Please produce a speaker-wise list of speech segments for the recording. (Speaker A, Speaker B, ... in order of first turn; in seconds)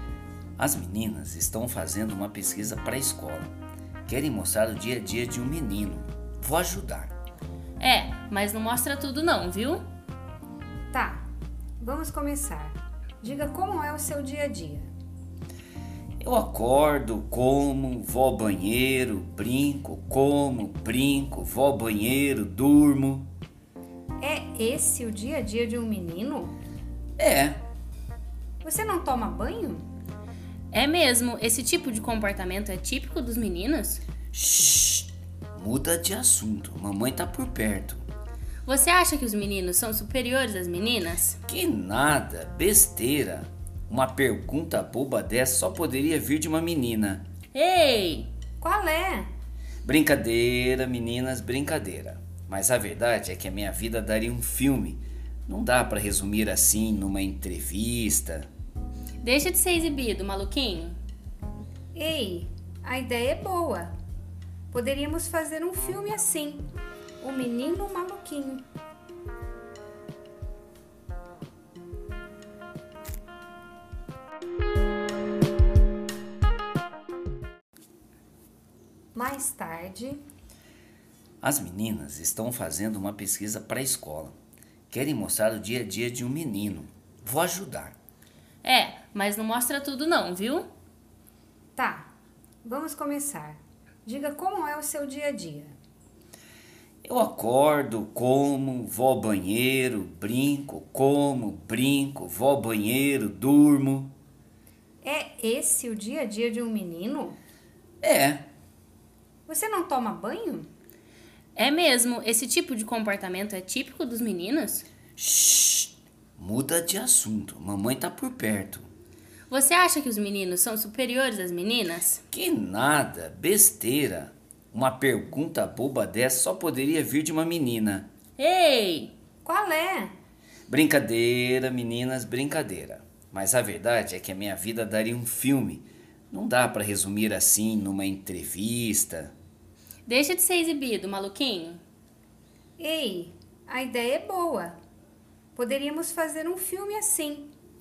Speaker A: 0.6-3.5, 4.1-7.1, 16.2-23.3, 27.2-27.6, 34.3-38.0, 41.5-47.2, 49.8-58.5, 81.4-84.3, 84.9-87.9, 97.0-104.1, 108.0-108.4, 115.2-118.9, 122.3-128.1, 130.7-139.3
Speaker B: 7.8-9.8, 30.7-34.0, 38.6-41.4, 47.5-48.3, 59.2-61.0, 88.6-90.7, 111.5-114.8, 119.5-122.2, 128.4-129.1, 140.1-141.8
Speaker C: 10.9-11.2, 11.8-14.9, 24.2-26.5, 28.6-29.8, 48.6-49.3, 61.9-63.9, 64.7-66.7, 67.2-68.7, 79.1-80.2, 91.8-92.1, 92.6-95.7, 105.0-107.4, 109.5-110.7, 129.4-130.1, 142.8-144.8, 145.6-147.5